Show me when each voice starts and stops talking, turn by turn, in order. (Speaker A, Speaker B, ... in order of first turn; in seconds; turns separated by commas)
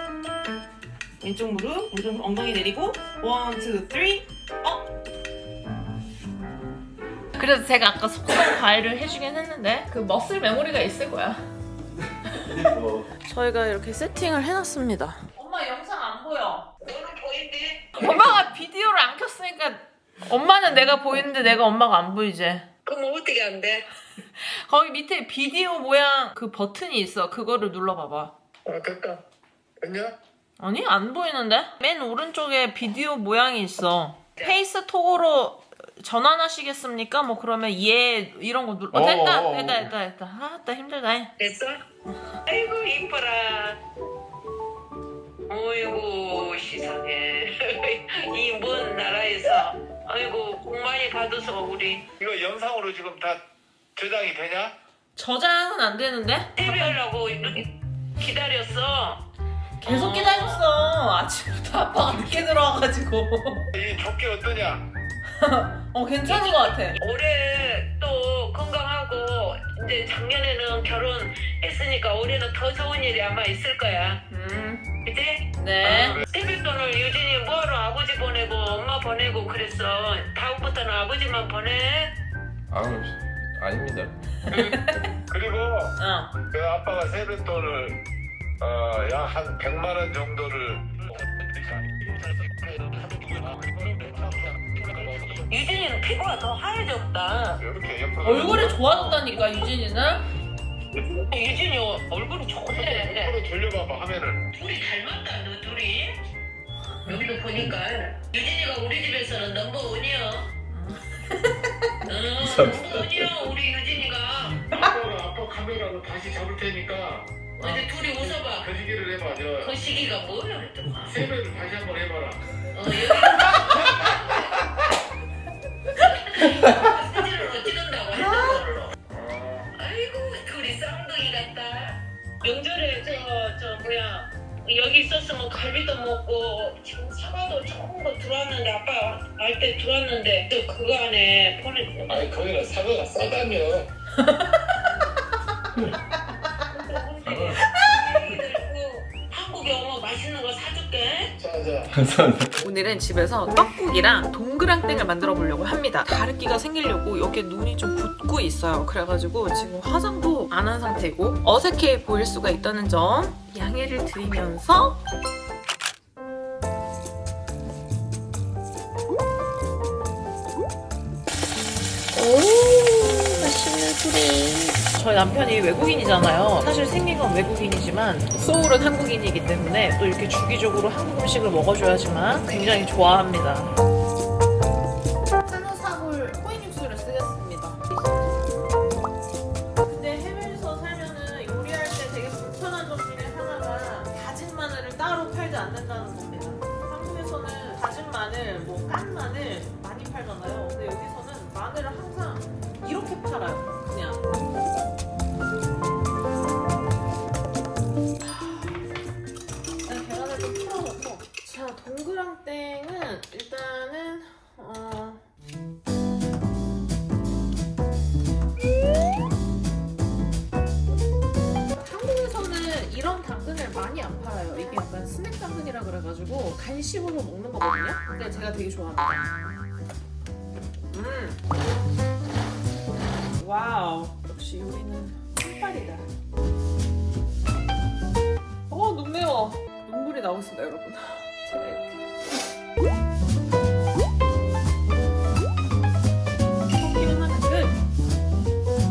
Speaker A: 1.2-4.8, Speaker A: 7.3-11.4, Speaker A: 12.3-12.7, Speaker B: 12.6-13.0, Speaker A: 13.2-16.7, Speaker C: 16.8-18.4, Speaker A: 18.0-22.6, Speaker C: 22.9-23.9, Speaker A: 24.4-28.3, Speaker D: 28.6-29.2, Speaker D: 29.8-30.1, Speaker A: 30.6-41.3, Speaker D: 38.9-39.9, Speaker C: 41.4-41.8, Speaker C: 42.5-43.8, Speaker C: 45.5-52.0, Speaker D: 52.2-53.4, Speaker D: 54.0-54.7, Speaker A: 55.1-57.0, Speaker C: 56.5-59.2, Speaker A: 59.8-63.7, Speaker C: 59.8-60.6, Speaker D: 63.7-64.9, Speaker A: 65.4-67.0, Speaker C: 66.2-74.2, Speaker A: 74.3-74.9, Speaker C: 75.0-75.5, Speaker A: 75.6-76.2, Speaker D: 75.8-76.3, Speaker C: 76.3-82.1, Speaker B: 82.7-84.1, Speaker D: 84.5-88.0, Speaker A: 84.7-85.0, Speaker A: 86.0-86.3, Speaker D: 88.6-95.5, Speaker C: 95.5-97.6, Speaker D: 97.6-98.8, Speaker A: 98.2-100.2, Speaker C: 101.0-103.4, Speaker D: 102.7-104.5, Speaker C: 104.5-106.2, Speaker C: 107.0-110.5, Speaker A: 110.7-111.9, Speaker C: 112.0-114.7, Speaker B: 112.4-113.3, Speaker D: 114.7-117.3, Speaker C: 117.6-118.7, Speaker D: 118.3-119.7, Speaker C: 119.6-121.2, Speaker D: 121.0-122.4, Speaker C: 122.7-124.6, Speaker D: 123.2-123.6, Speaker C: 126.0-129.0, Speaker D: 129.1-129.7, Speaker C: 129.8-142.3, Speaker D: 142.1-143.9, Speaker A: 144.2-144.6, Speaker C: 146.7-151.3, Speaker D: 151.4-152.0, Speaker B: 151.9-152.5, Speaker A: 152.6-165.0, Speaker A: 172.1-183.7, Speaker A: 185.4-187.8, Speaker A: 189.8-204.3, Speaker A: 208.3-208.8, Speaker A: 209.8-215.2, Speaker A: 221.7-229.5, Speaker A: 230.9-231.4, Speaker A: 233.3-236.0, Speaker A: 238.7-242.2, Speaker A: 246.8-247.7